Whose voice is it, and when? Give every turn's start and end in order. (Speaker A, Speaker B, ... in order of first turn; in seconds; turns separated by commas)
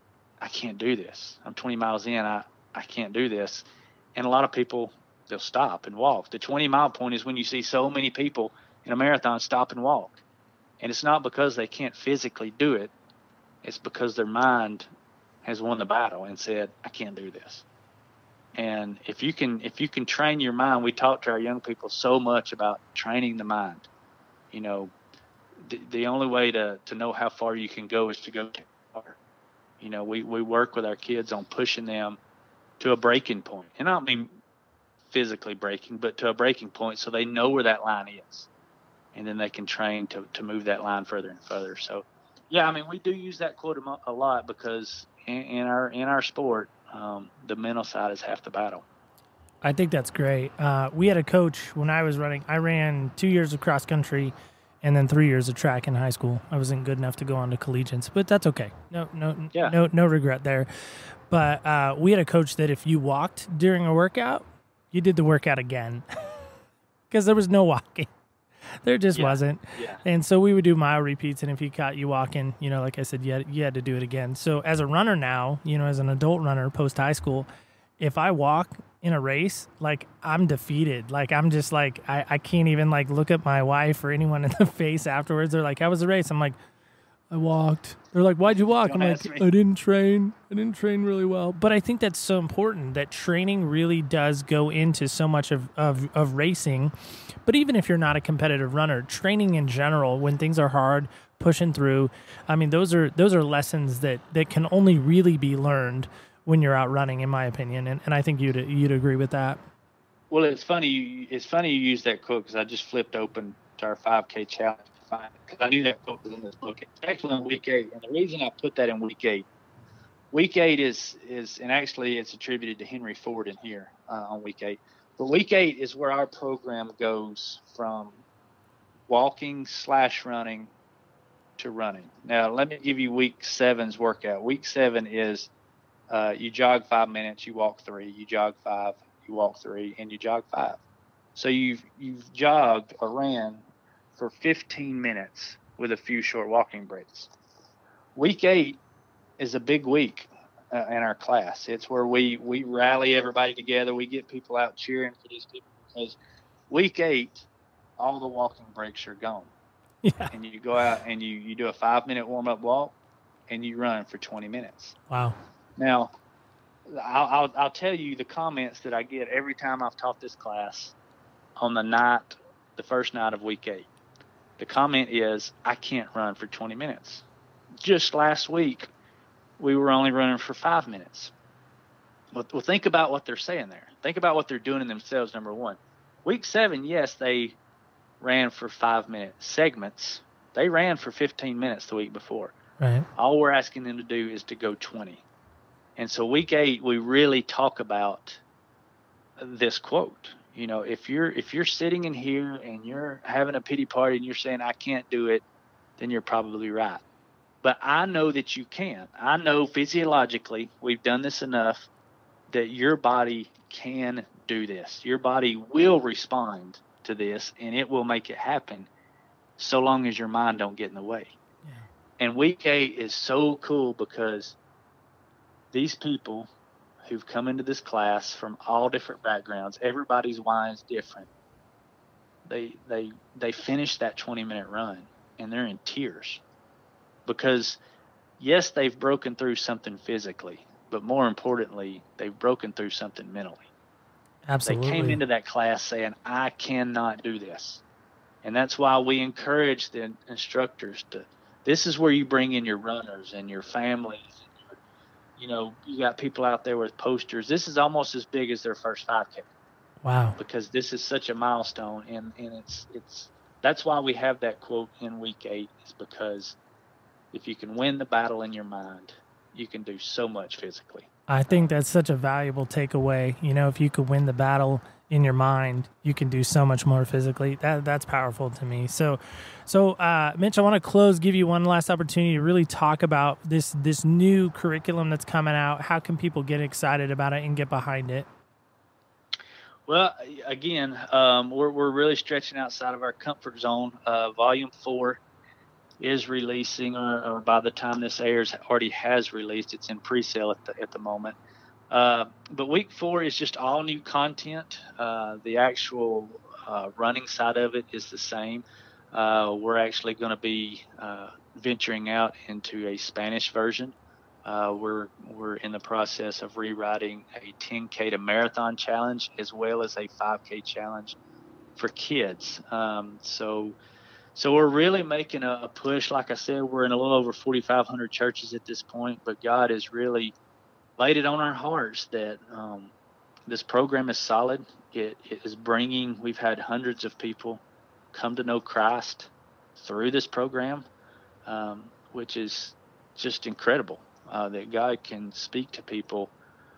Speaker A: 0.4-10.2, Speaker A: 10.8-12.9, Speaker A: 13.6-14.9, Speaker A: 15.4-17.6, Speaker A: 18.6-23.9, Speaker A: 24.5-24.9, Speaker A: 25.6-29.2, Speaker A: 29.8-32.2, Speaker A: 32.8-34.4, Speaker A: 35.1-38.5, Speaker A: 39.1-48.9, Speaker B: 49.6-66.0, Speaker B: 67.1-68.1, Speaker B: 68.8-77.5, Speaker A: 69.1-70.0, Speaker B: 78.0-86.6, Speaker B: 87.3-96.9, Speaker A: 88.8-89.5, Speaker B: 97.4-109.6, Speaker A: 110.3-119.5, Speaker A: 120.3-128.2, Speaker A: 129.1-130.7, Speaker A: 131.6-135.5, Speaker A: 136.1-140.8, Speaker A: 141.4-143.6, Speaker A: 144.2-147.3, Speaker A: 148.2-148.8, Speaker A: 149.4-156.2, Speaker A: 156.7-157.5, Speaker A: 158.0-159.5, Speaker B: 160.0-160.3, Speaker A: 160.3-163.0, Speaker A: 163.5-165.0, Speaker B: 165.1-165.4, Speaker A: 165.8-166.1, Speaker A: 166.9-170.9, Speaker A: 171.6-173.9, Speaker A: 174.6-177.2, Speaker A: 177.8-178.9, Speaker A: 179.6-181.3, Speaker A: 182.3-187.6, Speaker A: 188.2-192.6, Speaker B: 192.8-193.1, Speaker A: 193.2-195.2, Speaker A: 196.0-198.4, Speaker A: 199.4-205.4, Speaker A: 206.0-207.0, Speaker A: 207.6-211.9, Speaker A: 212.5-218.9, Speaker A: 219.6-221.4, Speaker A: 222.2-224.6, Speaker A: 225.7-226.5, Speaker A: 227.1-231.3, Speaker A: 232.5-236.4, Speaker A: 237.3-237.8, Speaker A: 238.4-243.7, Speaker B: 244.5-245.2, Speaker A: 244.7-247.8, Speaker A: 248.4-254.8, Speaker A: 255.4-259.5, Speaker B: 260.0-260.4, Speaker A: 260.4-266.6, Speaker A: 267.3-271.7, Speaker B: 271.3-288.3, Speaker A: 289.9-295.2, Speaker A: 296.0-301.4, Speaker A: 301.9-321.2, Speaker A: 321.8-323.8, Speaker A: 324.4-330.3, Speaker A: 331.0-332.9, Speaker A: 333.5-337.6, Speaker A: 338.1-340.9, Speaker A: 341.5-346.3